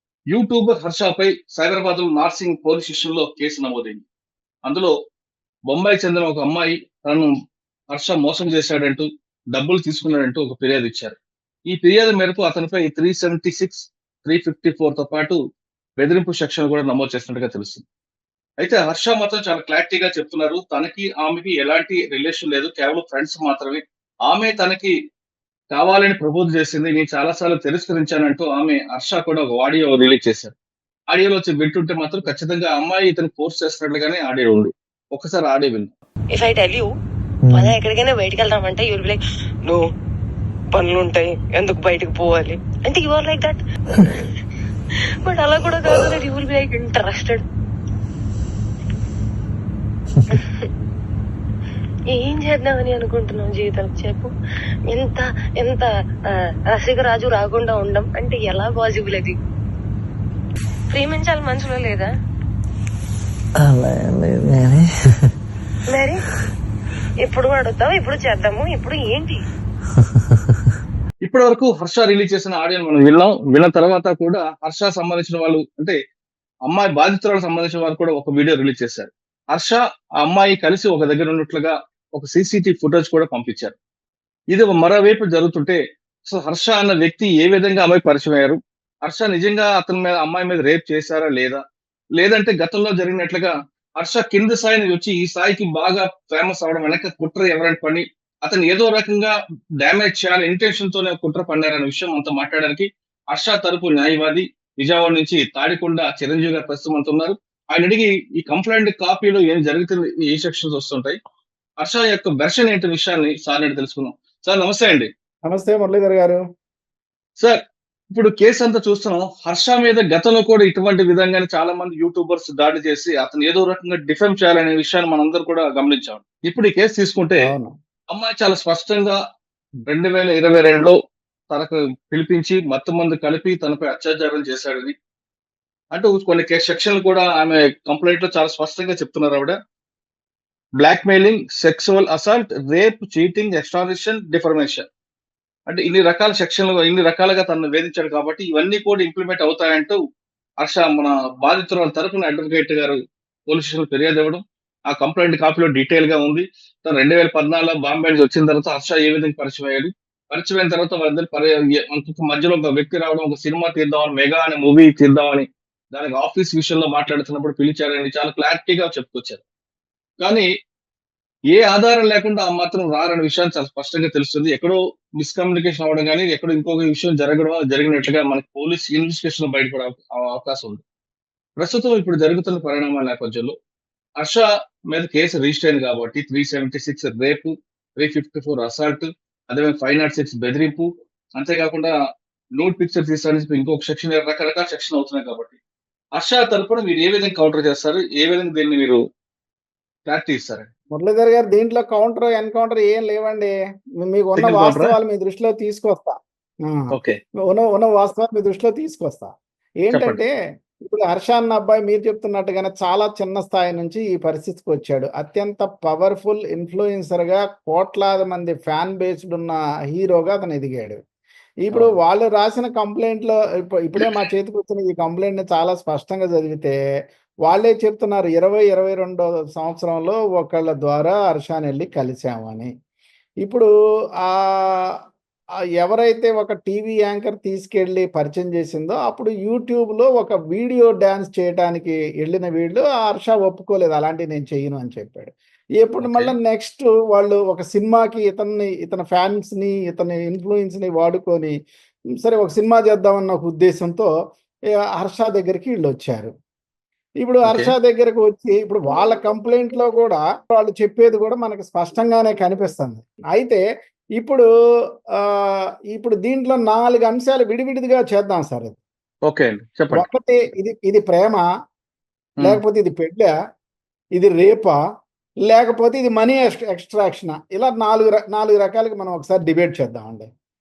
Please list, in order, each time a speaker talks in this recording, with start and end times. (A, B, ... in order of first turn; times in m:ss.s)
0:00.3-0:04.0 A
0:04.7-0:04.9 A
0:05.7-0:07.3 A
0:07.9-0:11.2 A
0:11.7-0:15.4 A
0:16.0-0:17.8 A
0:18.6-0:25.0 A
0:25.7-0:30.5 A
0:31.1-0:35.9 A
0:36.3-0:36.9 B
0:37.4-0:37.8 C
0:37.5-0:39.8 B
0:40.7-0:44.4 B
0:45.2-0:47.4 B
0:50.3-0:50.7 B
0:52.1-0:54.3 B
0:54.9-0:55.9 B
0:56.7-0:59.3 B
1:00.9-1:02.1 B
1:03.6-1:05.3 C
1:05.9-1:06.2 B
1:07.2-1:09.4 B
1:11.2-1:16.0 A
1:16.7-1:23.8 A
1:24.5-1:31.6 A
1:32.2-1:51.2 A
1:51.8-1:55.1 A
1:55.5-1:56.4 D
1:58.1-2:07.5 A
2:07.4-2:07.7 D
2:08.1-2:09.2 A
2:09.9-2:11.0 A
2:11.5-2:14.9 A
2:15.9-2:19.6 A
2:20.8-2:24.8 A
2:25.7-2:30.0 A
2:30.6-2:49.4 A
2:50.2-2:50.5 A
2:51.5-3:00.8 A
3:01.6-3:03.5 A
3:04.2-3:11.9 A
3:12.6-3:15.6 A
3:16.2-3:19.0 A
3:20.1-3:20.7 A
3:21.0-3:26.9 D
3:24.4-3:24.9 A
3:26.9-3:27.2 A
3:27.4-3:29.3 D
3:29.8-3:30.3 D
3:29.9-3:30.2 A
3:30.8-3:41.0 D
3:41.7-3:46.8 D
3:47.5-3:52.7 D
3:53.4-3:53.7 D
3:54.2-3:54.9 D
3:55.8-4:11.5 D
4:06.0-4:06.3 A
4:12.2-4:14.1 D
4:15.0-4:16.3 D
4:17.2-4:23.6 D
4:17.5-4:17.7 A
4:24.2-4:24.5 D
4:25.2-4:28.8 D
4:29.3-4:30.1 A
4:29.9-4:31.4 D
4:32.4-4:33.3 D
4:34.2-4:34.8 D
4:35.5-4:40.3 D